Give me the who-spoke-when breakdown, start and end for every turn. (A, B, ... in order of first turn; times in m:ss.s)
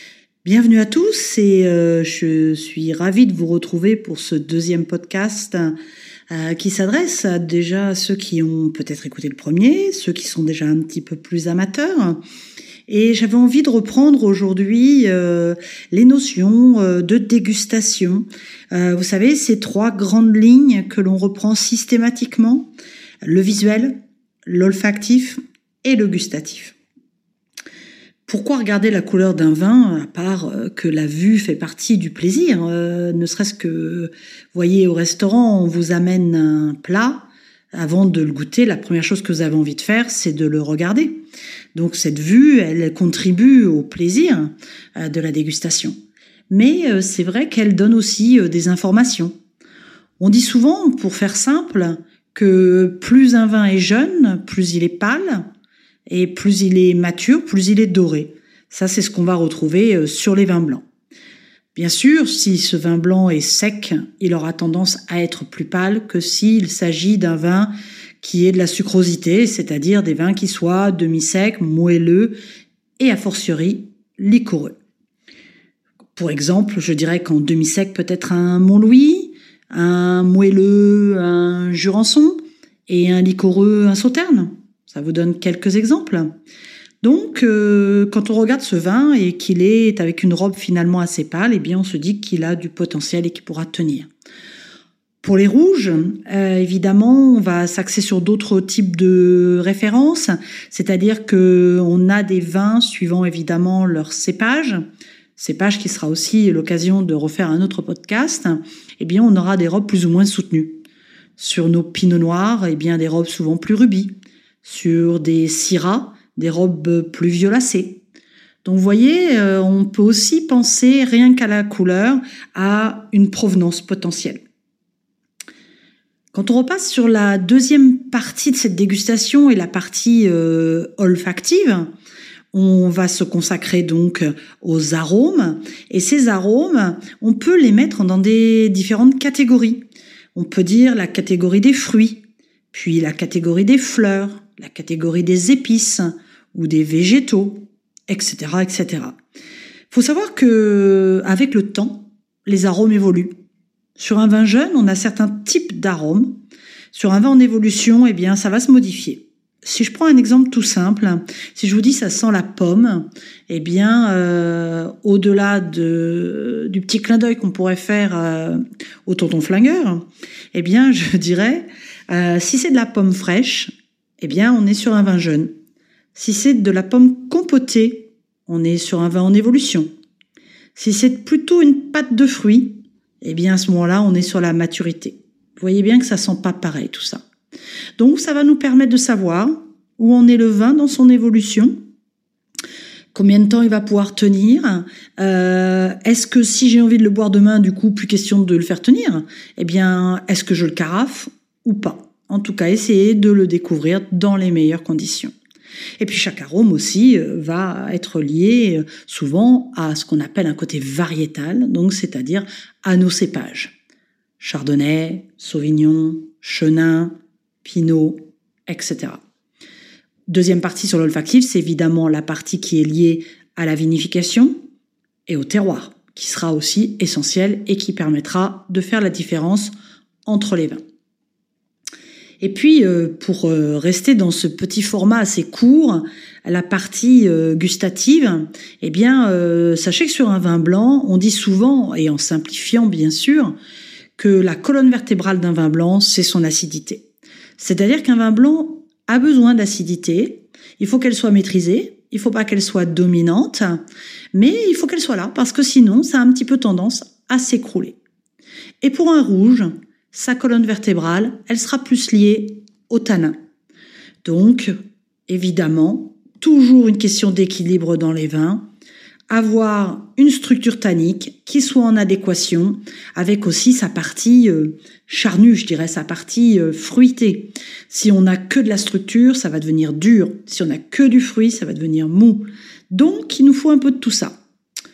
0:00.4-0:05.8 A
0:06.3-0:12.2 A
0:12.9-0:22.7 A
0:23.2-0:26.8 A
0:28.3-0:41.2 A
0:41.7-0:45.9 A
0:46.5-0:49.3 A
0:50.2-0:55.4 A
0:56.1-1:00.8 A
1:01.7-1:12.3 A
1:13.0-1:14.8 A
1:16.2-1:26.3 A
1:27.0-1:34.1 A
1:35.2-1:44.8 A
1:45.4-1:50.8 A
1:51.4-1:54.1 A
1:54.6-1:58.0 A
1:58.6-2:04.4 A
2:06.3-2:11.9 A
2:12.5-2:19.8 A
2:20.3-2:22.2 A
2:22.7-2:29.2 A
2:29.9-2:33.3 A
2:34.0-2:36.3 A
2:36.9-2:55.5 A
2:56.1-2:59.9 A
3:00.7-3:07.2 A
3:08.0-3:11.8 A
3:13.1-3:25.3 A
3:26.0-3:33.7 A
3:34.4-3:39.2 A
3:40.3-3:44.6 A
3:45.3-3:49.7 A
3:50.2-3:50.8 A
3:52.4-4:03.5 A
4:04.2-4:07.0 A
4:07.6-4:13.8 A
4:14.3-4:18.0 A
4:18.8-4:23.4 A
4:24.2-4:24.7 A
4:25.3-4:28.6 A
4:29.3-4:44.4 A